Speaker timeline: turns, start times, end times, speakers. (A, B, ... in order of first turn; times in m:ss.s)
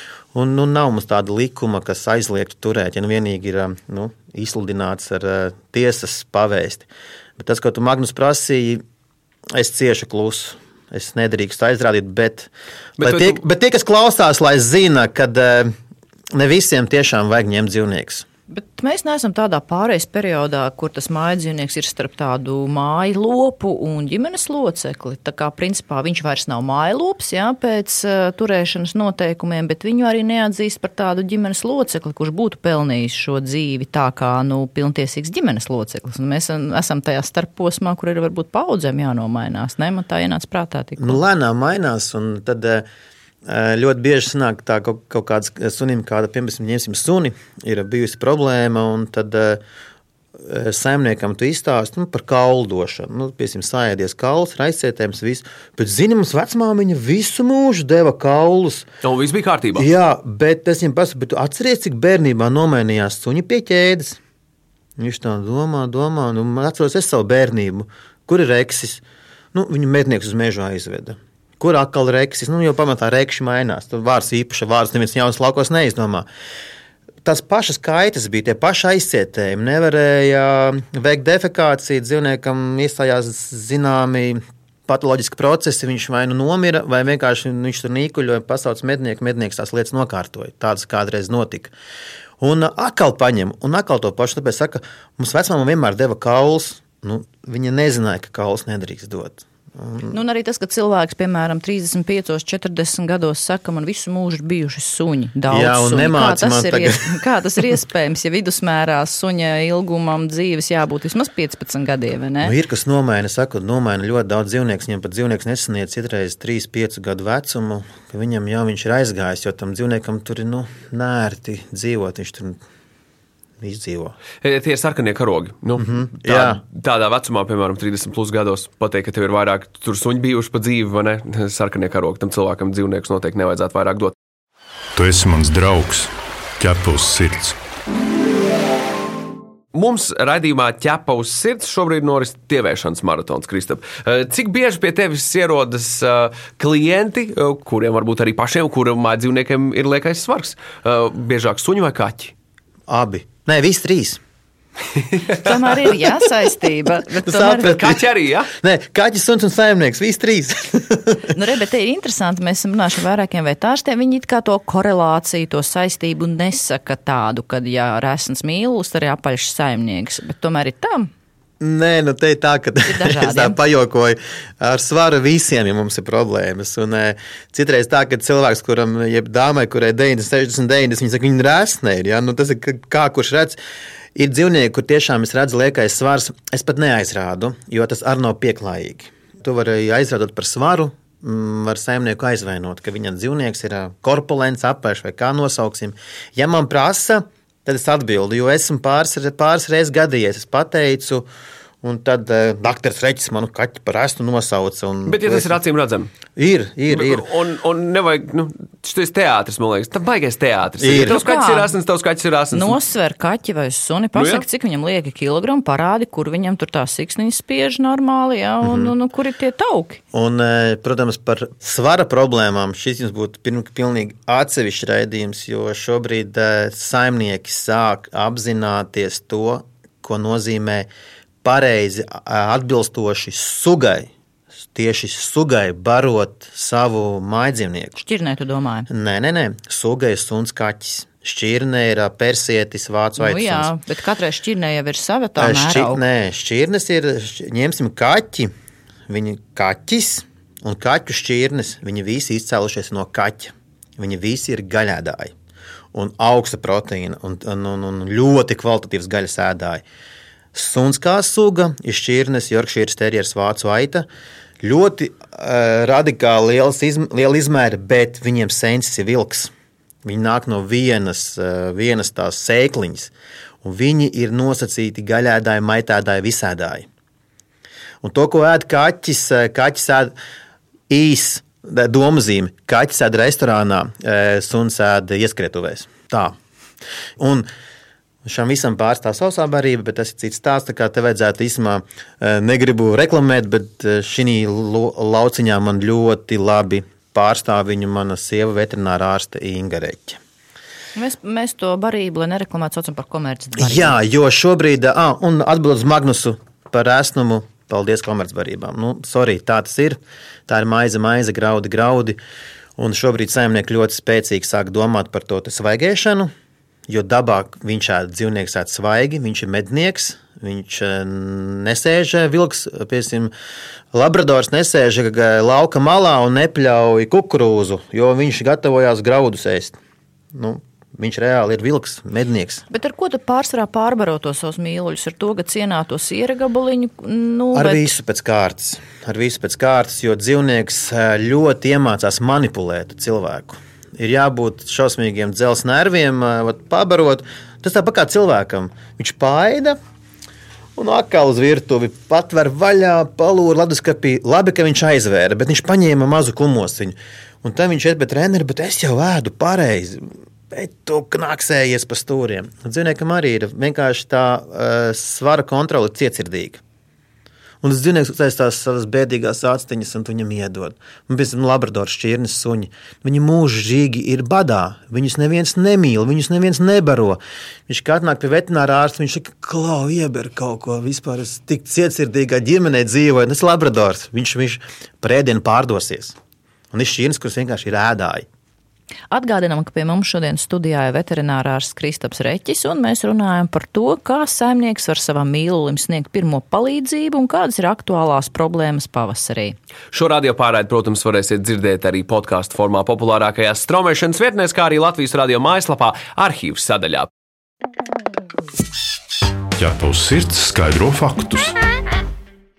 0:00.3-0:08.8 A
0:09.6-0:15.7 A
0:13.0-0:13.4 B
0:16.3-0:18.3 A
0:18.5-0:41.2 C
0:41.0-0:42.9 A
0:43.5-0:49.6 A
0:50.4-0:58.9 A
0:59.0-0:59.9 B
0:59.8-1:04.2 A
1:05.0-1:09.0 A
1:09.5-1:16.3 A
1:17.2-1:31.7 A
1:32.4-1:40.1 A
1:40.1-1:52.5 C
1:45.5-1:47.2 A
1:52.4-2:02.6 A
2:03.6-2:04.2 A
2:04.4-2:14.1 B
2:05.8-2:06.6 A
2:15.0-2:17.6 D
2:19.7-2:32.3 B
2:32.9-2:34.2 A
2:35.3-2:37.8 C
2:37.2-2:38.0 A
2:37.6-2:38.5 B
2:38.5-2:41.4 A
2:41.3-2:51.1 C
2:51.6-3:03.6 A
2:52.8-2:53.6 C
3:04.2-3:21.3 A
3:21.8-3:25.6 A
3:25.1-3:26.1 B
3:26.4-3:27.3 A
3:26.9-3:32.8 B
3:30.8-3:31.2 A
3:31.0-3:31.8 C
3:32.5-3:40.0 C
3:34.2-3:34.4 B
3:38.6-3:38.9 A
3:40.1-3:50.9 A
3:51.4-3:54.1 A
3:54.7-3:58.0 A
3:58.0-3:58.9 C
3:58.9-4:03.7 A
4:03.2-4:06.0 C
4:05.4-4:08.5 A
4:09.1-4:15.3 A
4:15.9-4:19.8 A
4:20.5-4:24.1 A
4:24.6-4:29.5 A
4:30.0-4:33.1 A
4:33.6-4:36.9 A
4:38.0-4:40.1 A
4:40.9-4:46.4 A
4:47.2-4:47.5 A
4:48.2-5:00.2 A
5:01.0-5:04.0 C
5:03.6-5:12.2 A
5:12.8-5:16.3 A
5:16.9-5:23.3 A
5:23.9-5:29.8 A
5:30.3-5:32.6 A
5:32.7-5:37.9 C
5:37.5-5:49.8 A
5:50.8-6:06.6 A
6:07.6-6:26.2 A
6:26.7-6:28.3 A
6:29.1-6:39.6 C
6:39.9-6:47.1 B
6:49.6-6:51.6 D